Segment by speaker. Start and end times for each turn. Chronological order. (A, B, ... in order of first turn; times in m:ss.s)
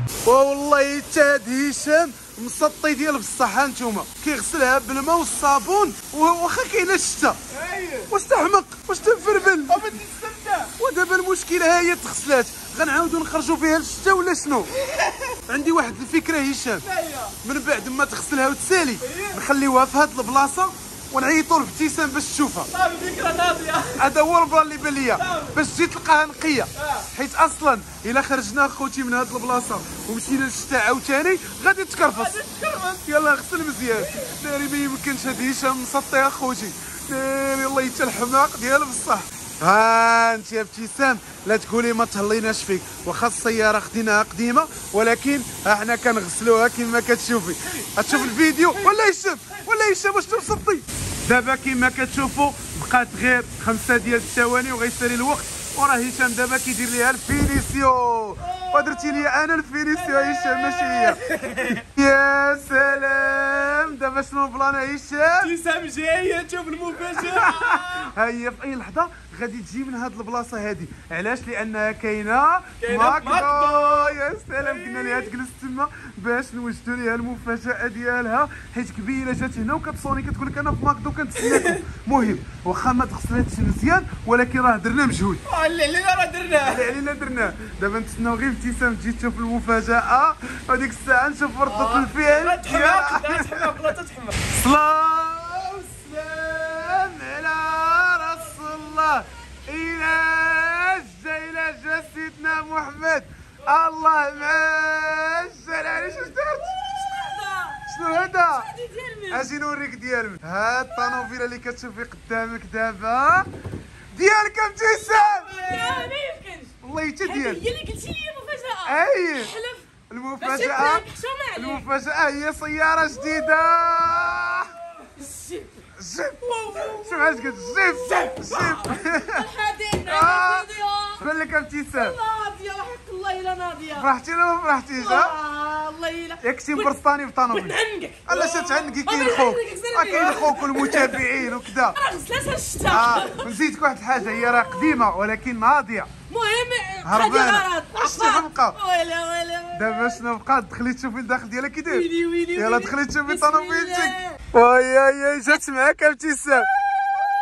0:00.2-0:07.4 A
0:07.5-0:08.1 B
0:08.1-0:09.8 A
0:09.1-0:10.7 B
0:10.8-0:14.7 A
0:14.7-0:15.4 B
0:15.5-0:16.8 A
0:16.8-0:17.4 B
0:17.4-0:22.7 A
0:19.0-0:19.4 B
0:22.7-0:24.1 B
0:24.0-1:01.2 A
0:25.1-0:25.6 B
0:26.8-0:27.0 B
0:32.0-0:33.0 B
0:33.9-0:34.4 B
0:48.0-0:48.9 B
0:58.4-0:59.3 B
0:59.9-1:01.9 B
1:01.9-1:05.5 A
1:05.4-1:08.1 B
1:07.2-1:25.4 A
1:12.8-1:15.3 B
1:21.4-1:21.8 B
1:25.5-1:26.9 B
1:26.6-1:33.8 A
1:31.6-1:34.4 B
1:34.5-1:46.8 A
1:46.0-1:49.5 C
1:47.9-1:48.7 A
1:49.3-1:53.5 A
1:54.1-1:55.5 A
1:54.8-1:59.8 C
1:56.8-1:57.6 A
1:58.8-1:59.5 A
2:00.1-2:01.0 A
2:00.4-2:01.8 C
2:01.6-2:04.8 A
2:03.1-2:03.5 C
2:05.2-2:05.8 C
2:06.0-2:09.4 A
2:06.4-2:11.2 C
2:10.0-2:10.6 A
2:11.2-2:12.2 A
2:11.9-2:14.1 C
2:14.0-2:15.3 A
2:15.0-2:16.9 C
2:16.4-2:22.0 A
2:17.5-2:23.5 C
2:22.9-2:26.1 A
2:24.1-2:25.0 C
2:26.3-2:30.2 C
2:27.0-2:28.8 A
2:29.7-2:36.7 A
2:31.8-2:34.4 C